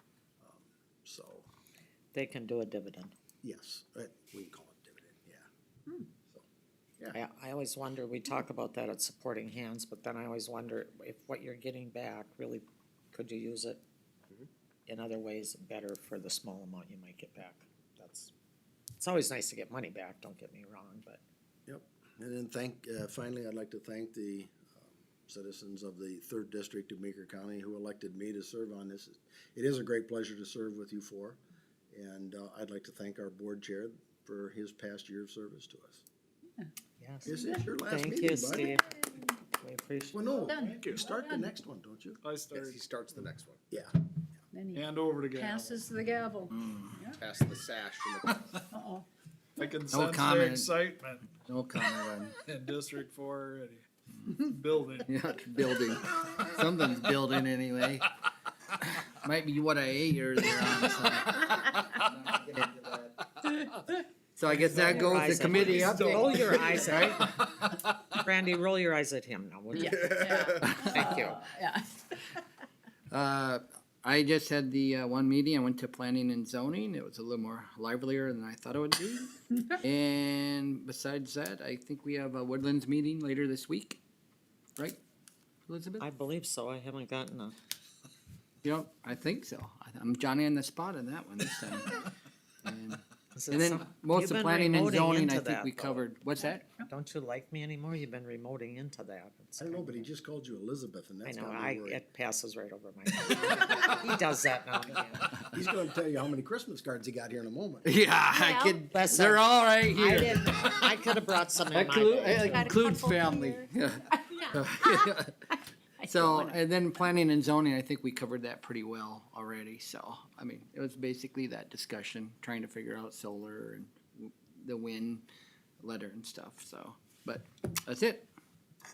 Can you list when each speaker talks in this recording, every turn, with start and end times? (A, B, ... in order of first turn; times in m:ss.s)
0:00.4-0:01.5 A
0:02.1-0:03.1 B
0:03.4-0:05.5 A
0:07.1-0:13.8 B
0:14.9-0:18.3 B
0:19.0-0:21.2 B
0:21.7-0:31.4 A
0:31.9-0:36.0 A
0:37.0-0:37.3 B
0:37.2-0:37.6 C
0:37.2-0:38.8 A
0:37.8-0:40.4 B
0:38.6-0:39.2 C
0:40.1-0:42.2 A
0:40.3-0:41.0 D
0:40.4-0:41.5 C
0:42.2-0:42.8 D
0:42.5-0:43.6 E
0:44.5-0:47.2 C
0:44.7-0:45.8 D
0:46.5-0:47.0 F
0:47.2-0:48.5 E
0:48.7-0:49.0 C
0:49.6-0:55.2 D
0:49.9-0:50.7 F
0:51.4-0:52.3 F
0:55.1-0:58.1 F
0:58.8-1:03.6 F
1:04.4-1:07.6 F
1:04.4-1:07.7 D
1:04.9-1:07.3 B
1:08.2-1:11.4 B
1:09.7-1:12.0 C
1:09.9-1:10.5 E
1:10.6-1:11.3 F
1:13.1-1:24.0 F
1:25.7-1:26.0 F
1:26.0-1:27.6 B
1:28.6-1:32.0 F
1:32.6-1:36.7 F
1:33.3-1:36.0 B
1:36.8-1:40.1 B
1:39.6-1:42.0 A
1:41.2-1:45.4 B
1:45.4-1:47.9 A
1:47.8-1:50.9 F
1:48.3-1:48.7 C
1:48.5-1:52.7 B
1:51.7-1:55.4 F
1:52.4-1:55.1 C
1:56.0-1:56.6 C
1:56.0-2:05.2 F
2:05.8-2:08.3 F